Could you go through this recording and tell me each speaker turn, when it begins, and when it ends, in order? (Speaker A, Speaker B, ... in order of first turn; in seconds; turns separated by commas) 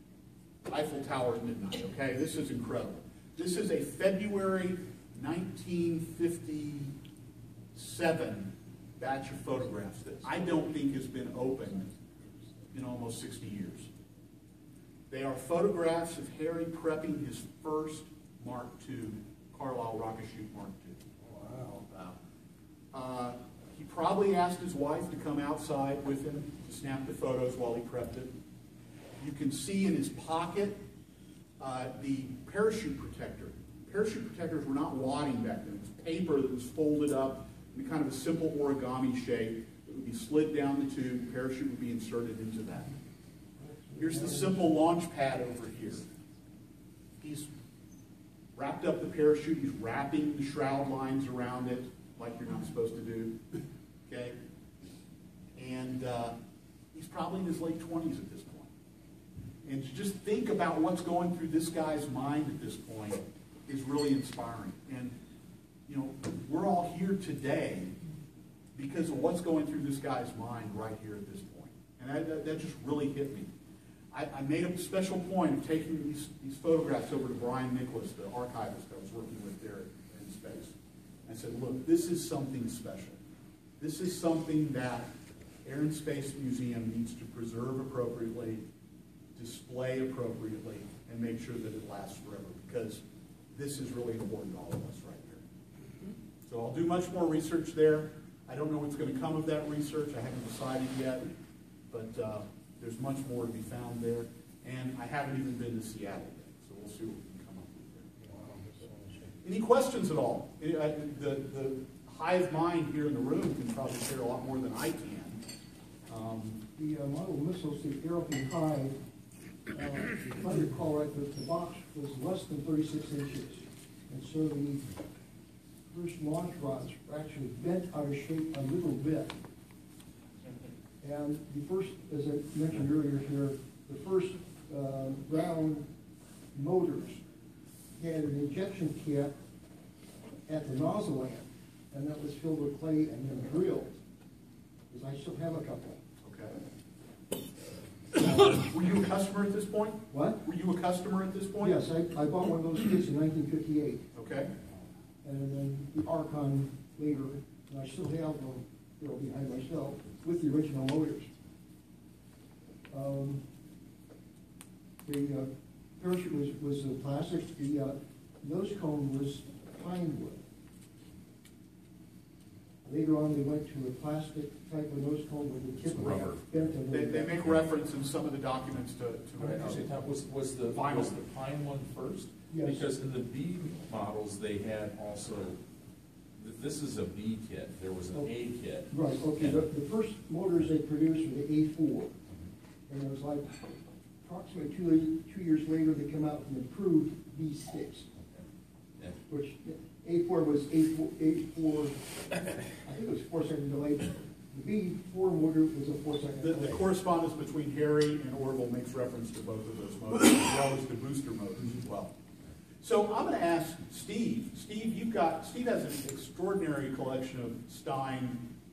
Speaker A: 0.7-6.9, Speaker A: 7.7-11.9, Speaker A: 12.7-13.9, Speaker A: 15.1-21.0, Speaker A: 22.9-28.3, Speaker A: 29.2-30.8, Speaker A: 31.6-42.9, Speaker B: 43.9-44.7, Speaker A: 44.0-46.0, Speaker A: 47.2-47.5, Speaker A: 48.5-54.4, Speaker A: 55.5-56.3, Speaker A: 56.9-58.7, Speaker A: 59.6-65.2, Speaker A: 65.9-67.9, Speaker A: 68.7-73.5, Speaker A: 74.1-80.7, Speaker A: 81.2-83.2, Speaker A: 83.8-85.1, Speaker A: 85.6-88.6, Speaker A: 89.3-93.0, Speaker A: 93.5-95.4, Speaker A: 96.5-101.3, Speaker A: 101.9-108.1, Speaker A: 109.4-115.4, Speaker A: 116.1-116.6, Speaker B: 116.8-119.0, Speaker B: 119.7-124.8, Speaker B: 125.9-129.4, Speaker B: 131.0-135.9, Speaker B: 136.5-137.2, Speaker B: 138.0-139.3, Speaker B: 140.5-144.0, Speaker B: 144.9-146.0, Speaker A: 146.2-146.6, Speaker A: 148.4-151.8, Speaker B: 150.1-150.4, Speaker B: 151.6-154.0, Speaker A: 154.1-154.5, Speaker B: 155.2-161.3, Speaker B: 162.9-163.4, Speaker B: 165.0-170.4, Speaker B: 172.8-177.3, Speaker C: 175.9-176.4, Speaker A: 176.9-179.9, Speaker C: 179.4-185.6, Speaker A: 180.7-181.2, Speaker B: 182.5-182.9, Speaker C: 186.4-189.6, Speaker B: 188.9-192.1, Speaker B: 192.9-193.5, Speaker B: 194.2-198.1, Speaker B: 199.3-202.0, Speaker B: 202.7-206.8, Speaker A: 206.4-212.1, Speaker A: 212.8-218.5